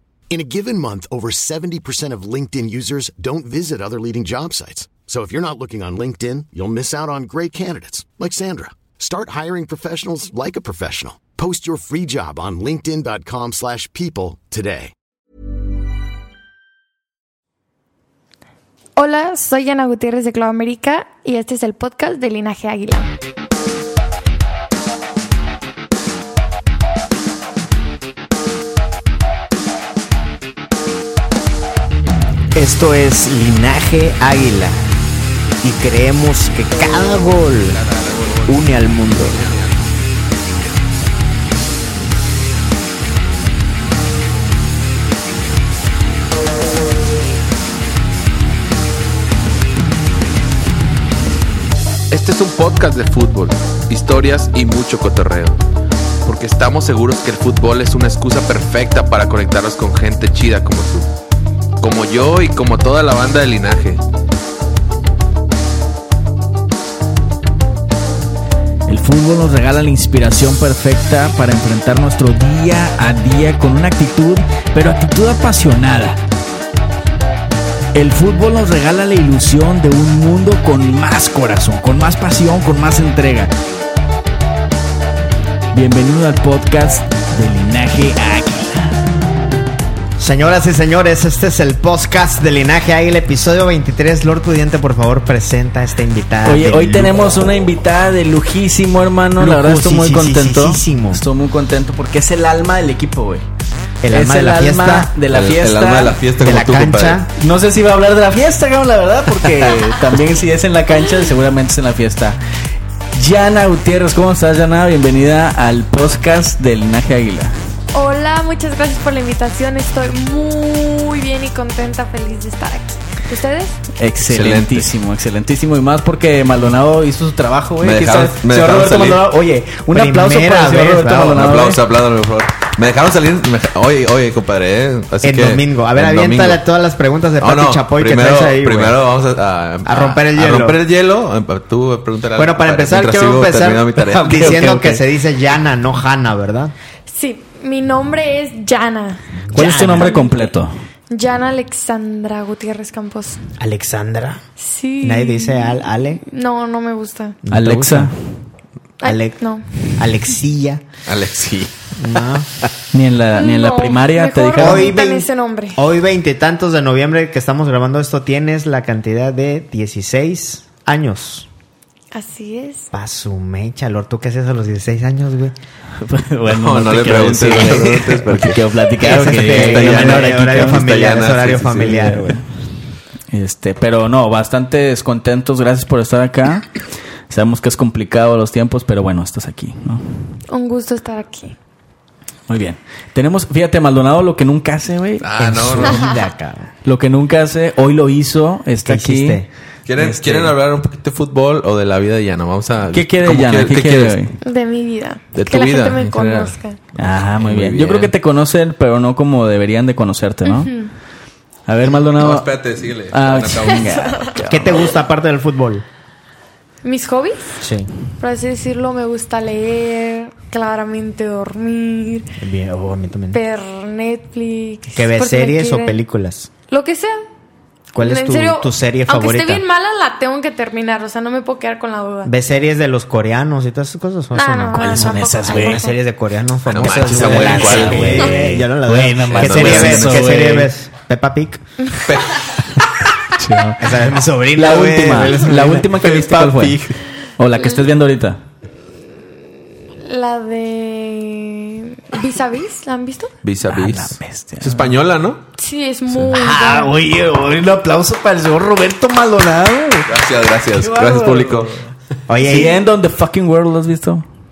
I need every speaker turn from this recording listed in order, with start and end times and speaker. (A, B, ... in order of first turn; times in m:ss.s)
0:00.3-0:14.9 A
0:19.0-0:23.1 B
0:32.5-0:34.9 C
0:35.6-0:37.8 C
0:37.6-0:39.9 D
0:38.5-0:39.5 C
0:52.1-0:55.6 D
0:56.2-1:01.1 D
1:01.8-1:04.0 D
1:08.8-1:16.2 E
1:17.9-1:23.5 E
1:25.7-1:29.0 E
1:30.2-1:37.2 C
1:36.4-1:43.4 E
1:39.4-1:41.2 C
1:44.0-1:45.1 C
1:44.1-1:46.2 E
1:45.3-1:47.2 D
1:46.4-1:47.3 C
1:47.4-1:52.4 E
1:53.1-1:57.5 E
1:57.9-2:03.8 B
2:04.0-2:11.8 E
2:04.2-2:04.9 D
2:07.8-2:09.3 D
2:09.9-2:11.4 C
2:11.3-2:16.6 D
2:15.2-2:19.0 C
2:17.4-2:24.6 D
2:19.8-2:20.8 C
2:22.4-2:26.7 C
2:24.1-2:25.0 E
2:27.1-2:29.3 B
2:29.4-2:30.2 C
2:29.5-2:30.7 E
2:29.8-2:30.5 B
2:31.1-2:33.4 B
2:33.6-2:34.4 C
2:34.6-2:37.4 B
2:35.0-2:36.2 C
2:37.4-2:38.1 C
2:37.5-2:38.1 E
2:39.0-2:40.2 B
2:39.0-2:40.8 C
2:41.1-2:41.7 D
2:42.0-2:42.5 C
2:42.9-2:45.0 E
2:43.4-2:45.8 B
2:44.6-2:51.5 C
2:52.1-2:52.9 B
2:52.9-2:55.6 C
2:56.0-3:00.8 E
2:56.5-2:58.6 D
2:59.0-3:02.4 C
2:59.3-3:02.0 D
3:01.8-3:02.4 E
3:03.3-3:06.7 E
3:07.3-3:10.0 E
3:10.5-3:11.5 B
3:12.5-3:16.1 E
3:15.2-3:16.0 D
3:15.7-3:16.7 C
3:16.8-3:19.4 E
3:18.8-3:19.5 C
3:19.8-3:24.2 D
3:20.0-3:20.5 E
3:22.9-3:24.3 E
3:24.4-3:26.8 B
3:25.3-3:28.1 D
3:27.0-3:30.7 E
3:30.5-3:30.9 B
3:31.7-3:34.9 E
3:32.2-3:34.0 D
3:34.5-3:35.8 C
3:36.8-3:37.6 B
3:37.6-3:37.9 C
3:38.2-3:42.3 B
3:42.4-3:43.4 C
3:43.3-3:46.0 B
3:44.9-3:46.5 C
3:46.7-3:47.2 B
3:47.9-3:49.6 C
3:48.0-3:52.3 B
3:52.2-4:01.6 C
3:54.3-3:56.0 B
3:54.7-3:55.8 E
3:56.7-3:58.4 D
3:56.8-4:00.7 E
3:59.3-4:00.3 D
4:02.0-4:02.6 D
4:03.3-4:06.8 E
4:03.8-4:06.4 C
4:06.0-4:06.9 D
4:07.4-4:08.4 E
4:09.9-4:13.3 B
4:13.4-4:15.4 D
4:13.7-4:14.9 E
4:15.6-4:16.9 B
4:16.1-4:20.1 E
4:16.3-4:16.8 C
4:20.1-4:21.7 D
4:20.7-4:24.2 E
4:22.3-4:22.8 C